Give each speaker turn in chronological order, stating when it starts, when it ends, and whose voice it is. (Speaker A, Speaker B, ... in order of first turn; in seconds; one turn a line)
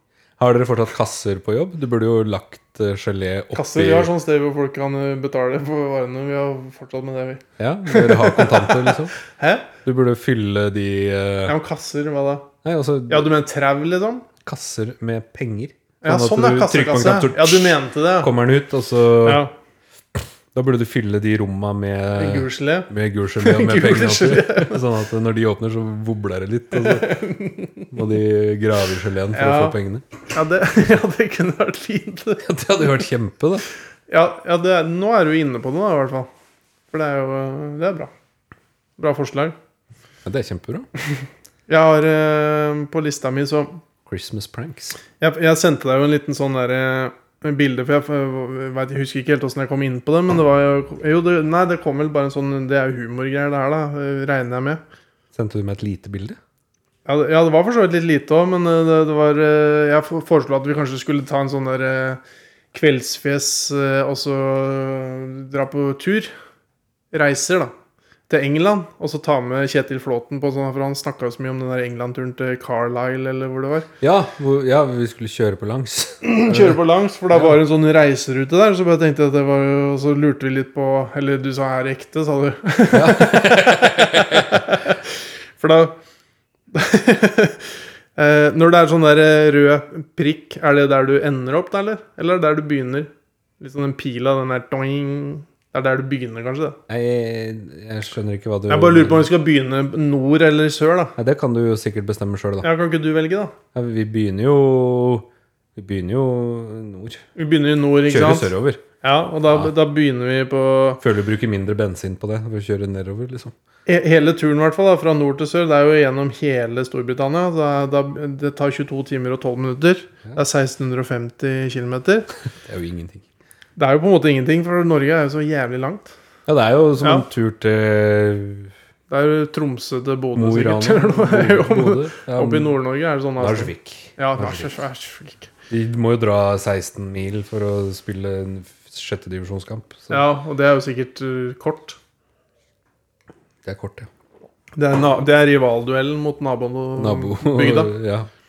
Speaker A: 0.4-4.1
Speaker B: 3.5-9.7
Speaker A: 7.6-9.2
Speaker A: 9.8-11.5
Speaker B: 11.5-12.5
Speaker A: 12.6-13.3
Speaker B: 13.1-14.3
Speaker A: 14.4-19.4
Speaker B: 16.0-18.3
Speaker B: 19.2-19.5
Speaker A: 20.5-27.2
Speaker B: 22.2-22.9
Speaker B: 23.4-24.8
Speaker B: 26.7-27.9
Speaker A: 27.9-30.0
Speaker B: 29.3-29.8
Speaker B: 30.3-32.5
Speaker A: 32.4-33.7
Speaker B: 34.1-36.3
Speaker B: 36.9-38.1
Speaker B: 39.0-39.6
Speaker A: 40.2-40.9
Speaker B: 41.7-43.8
Speaker A: 44.1-45.0
Speaker B: 45.2-54.8
Speaker A: 55.4-56.4
Speaker B: 57.1-62.2
Speaker B: 62.7-66.3
Speaker B: 67.1-67.7
Speaker B: 68.3-73.9
Speaker A: 74.0-76.8
Speaker B: 76.2-84.9
Speaker A: 82.9-84.7
Speaker B: 85.6-86.0
Speaker B: 86.7-93.1
Speaker B: 93.6-96.8
Speaker A: 96.9-99.3
Speaker B: 98.7-101.2
Speaker A: 101.2-102.7
Speaker B: 102.6-103.5
Speaker A: 103.7-107.2
Speaker B: 107.4-111.0
Speaker A: 108.1-108.8
Speaker A: 111.0-113.5
Speaker B: 113.9-122.3
Speaker A: 122.7-123.2
Speaker B: 123.8-126.1
Speaker A: 126.5-128.7
Speaker B: 127.0-127.3
Speaker B: 129.1-135.5
Speaker A: 130.4-132.8
Speaker A: 133.4-134.7
Speaker A: 135.7-140.2
Speaker B: 140.1-142.0
Speaker A: 143.7-144.1
Speaker B: 144.8-147.9
Speaker A: 147.0-148.3